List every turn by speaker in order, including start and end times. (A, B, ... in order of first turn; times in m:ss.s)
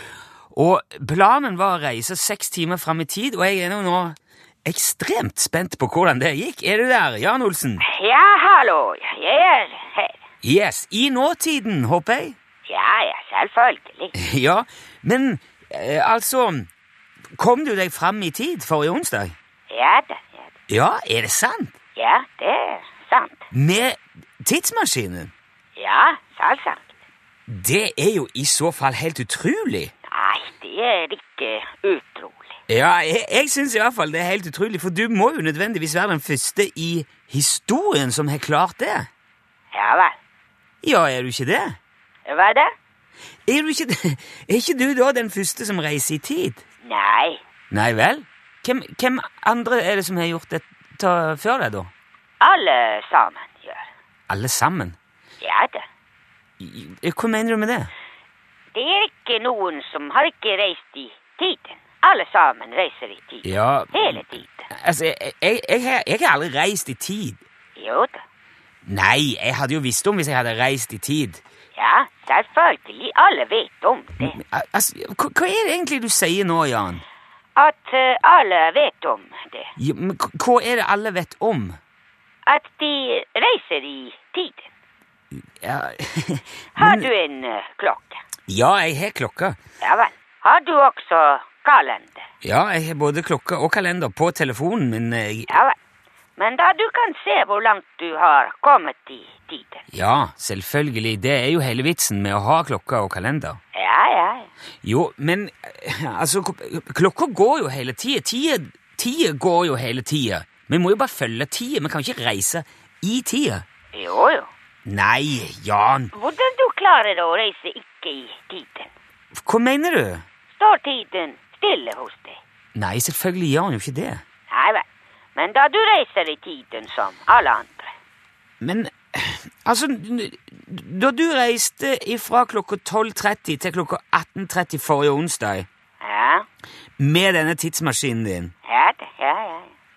0:00.5-0:07.8 A
0:07.8-0:10.2 B
0:10.4-0:12.4 A
0:12.7-0:14.1 B
0:14.1-0:16.7 A
0:17.4-0:19.3 A
0:19.7-0:20.5 B
0:20.7-0:21.7 A
0:22.0-0:23.5 B
0:23.5-0:25.3 A
0:25.8-0:26.9 B
0:27.5-0:29.9 A
0:30.1-0:32.5 B
0:32.7-0:39.1 A
0:39.7-0:40.1 B
0:40.8-0:41.8 A
0:42.3-0:42.7 B
0:43.5-0:46.6 A
0:46.8-0:47.4 B
0:47.7-0:51.9 A
0:52.4-0:53.9 B
0:54.3-0:55.0 A
0:55.4-0:55.8 B
0:56.6-0:57.9 A
0:58.7-1:04.7 B
1:03.4-1:07.4 A
1:07.8-1:08.2 B
1:08.8-1:11.4 A
1:11.8-1:14.4 B
1:14.2-1:17.0 A
1:17.6-1:19.7 B
1:19.8-1:21.8 A
1:22.4-1:24.7 B
1:25.6-1:27.1 A
1:26.8-1:28.2 B
1:28.5-1:29.6 A
1:29.8-1:32.2 B
1:32.4-1:35.5 A
1:35.5-1:35.8 B
1:36.4-1:39.8 B
1:39.9-1:43.6 A
1:43.7-1:44.5 B
1:44.8-1:53.6 A
1:53.9-1:54.5 B
1:54.8-1:56.1 A
1:56.1-1:58.9 B
1:59.4-2:00.2 A
2:00.5-2:02.4 B
2:02.8-2:04.2 A
2:04.5-2:04.8 B
2:05.3-2:07.9 B
2:08.6-2:15.7 A
2:16.0-2:16.4 B
2:17.0-2:18.5 A
2:18.6-2:19.7 B